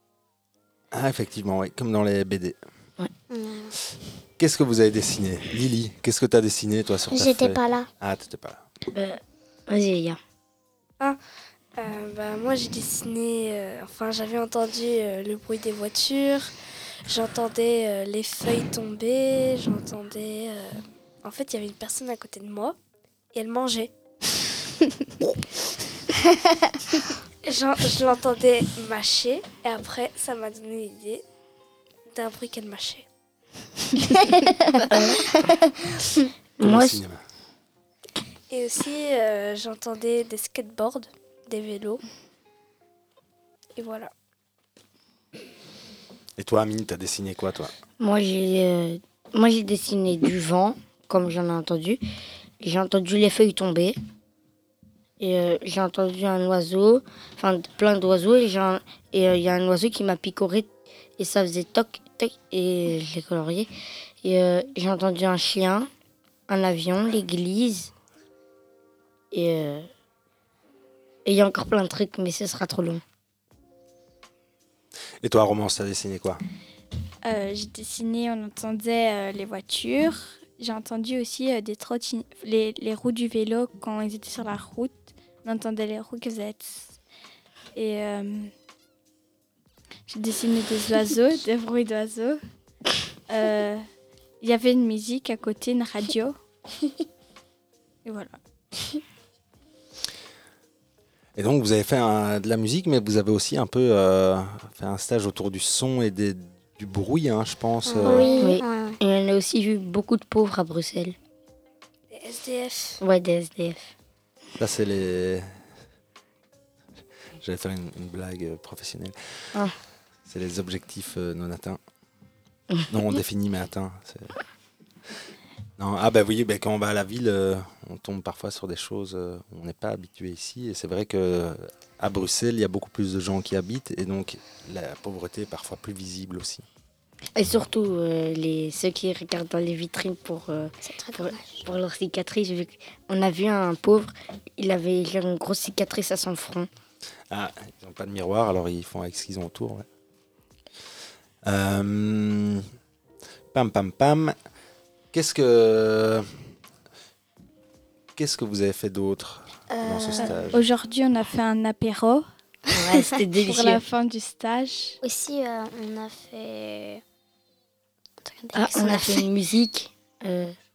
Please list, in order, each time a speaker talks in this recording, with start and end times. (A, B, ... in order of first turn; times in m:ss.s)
0:00.9-0:02.6 A
0:03.3-0:03.7 B
0:04.4-0:08.6 A
0:07.1-0:07.9 B
0:08.9-0:10.2 C
0:11.8-0:16.5 D
0:17.1-0:22.8 D
0:23.3-0:23.9 D
0:27.4-0:31.2 D
0:32.1-0:33.1 D
0:34.9-0:35.3 C
0:36.6-0:37.0 C
0:36.6-0:37.2 A
0:38.5-0:42.0 D
0:43.8-0:44.1 D
0:46.4-0:47.7 A
0:48.0-0:52.0 C
0:52.6-0:54.0 C
0:55.2-1:03.7 C
1:04.2-1:05.9 C
1:06.5-1:07.9 C
1:09.3-1:09.9 C
1:11.2-1:13.0 C
1:15.2-1:16.4 A
1:17.2-1:27.0 E
1:27.8-1:28.5 E
1:30.1-1:32.4 E
1:33.3-1:33.8 E
1:34.4-1:36.4 E
1:38.0-1:38.4 E
1:41.4-1:48.3 A
1:47.8-1:49.0 B
1:48.4-1:51.2 C
1:52.1-1:53.0 D
1:53.0-1:53.9 C
1:54.6-1:55.5 A
1:57.4-1:59.2 A
2:00.3-2:01.8 A
2:02.9-2:04.4 A
2:05.8-2:16.6 A
2:17.4-2:26.7 C
2:20.8-2:21.7 B
2:27.3-2:29.9 A
2:31.4-2:32.6 A
2:33.5-2:34.4 A
2:35.1-2:36.3 A
2:38.2-2:40.7 A
2:39.7-2:40.4 B
2:40.5-2:42.3 E
2:42.8-2:43.8 C
2:43.4-2:45.0 E
2:45.0-2:47.0 B
2:48.2-2:49.3 B
2:48.5-2:50.6 C